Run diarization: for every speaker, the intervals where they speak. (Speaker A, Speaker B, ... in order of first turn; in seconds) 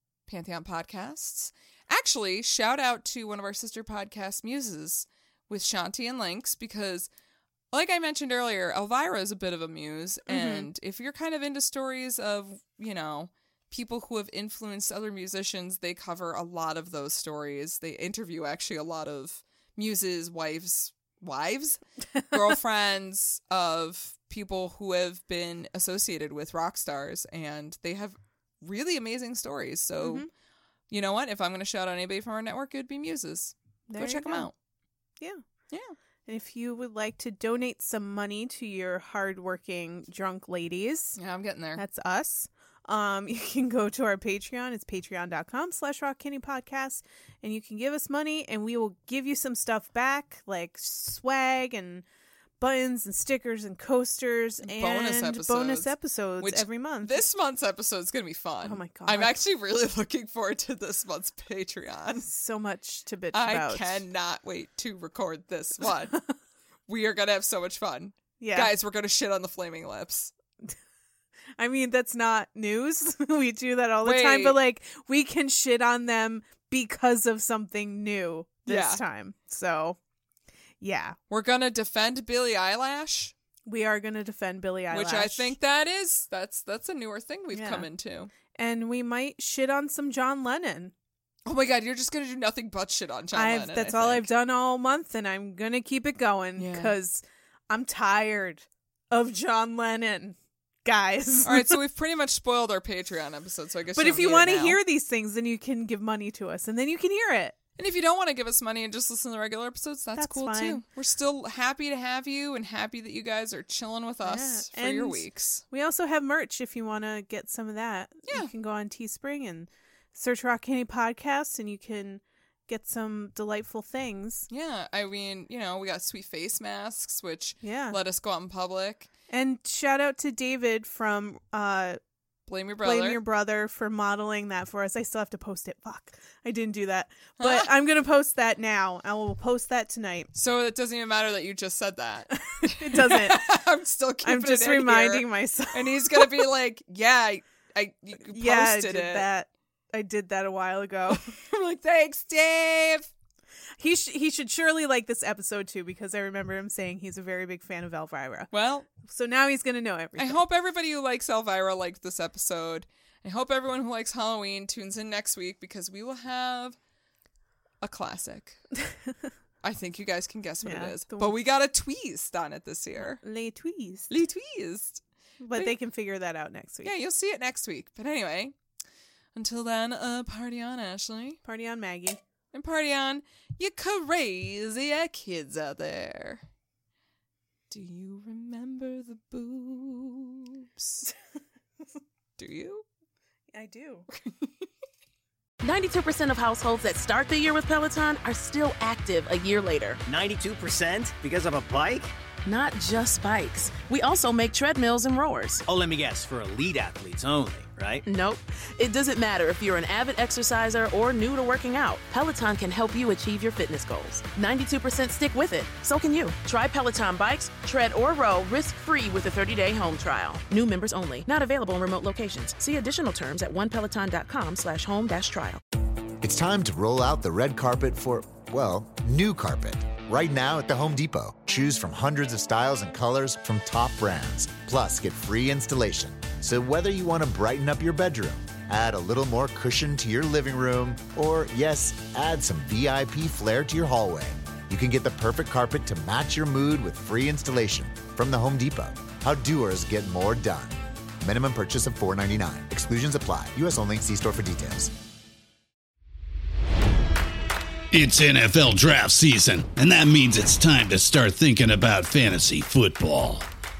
Speaker A: 0.3-7.1, 7.7-30.3, 30.9-34.5, 41.2-41.8, 54.6-62.3, 63.3-66.2, 66.9-70.3, 74.0-74.6, 78.7-79.0, 81.3-83.3, 84.9-88.3, 91.5-94.3, 96.6-96.9, 101.4-104.8, 107.8-115.6, 124.5-129.1, 132.5-133.2, 137.4-137.7, 140.3-149.3, 151.1-153.1, 158.5-158.9, 160.2-166.8, 167.8-168.6, 169.6-173.2, 174.1-175.0, 176.8-178.5, 179.3-181.4, 182.5-186.4, 187.7-191.1, 192.4-192.8
Speaker B: 10.3-10.7, 30.0-30.3, 33.9-34.5, 36.2-41.2, 41.8-52.0, 52.6-57.2, 58.6-59.4, 62.2-64.0, 68.4-68.7, 71.6-80.0, 80.8-81.2, 83.7-85.5, 87.5-87.9, 88.5-90.9, 93.3-101.8, 104.0-107.5, 110.2-110.8, 114.2-124.5, 127.6-128.0, 129.3-132.0, 132.8-140.3, 142.5-143.5, 144.2-146.3, 148.2-151.3, 153.8-158.5, 159.0-160.4, 170.6-171.3, 173.0-174.1, 175.4-176.9, 181.4-182.2, 193.5-194.1
Speaker C: 195.6-200.0, 202.4-205.6, 208.0-225.6
Speaker D: 200.1-202.1, 205.7-208.0
Speaker E: 226.2-254.9
Speaker F: 257.9-263.5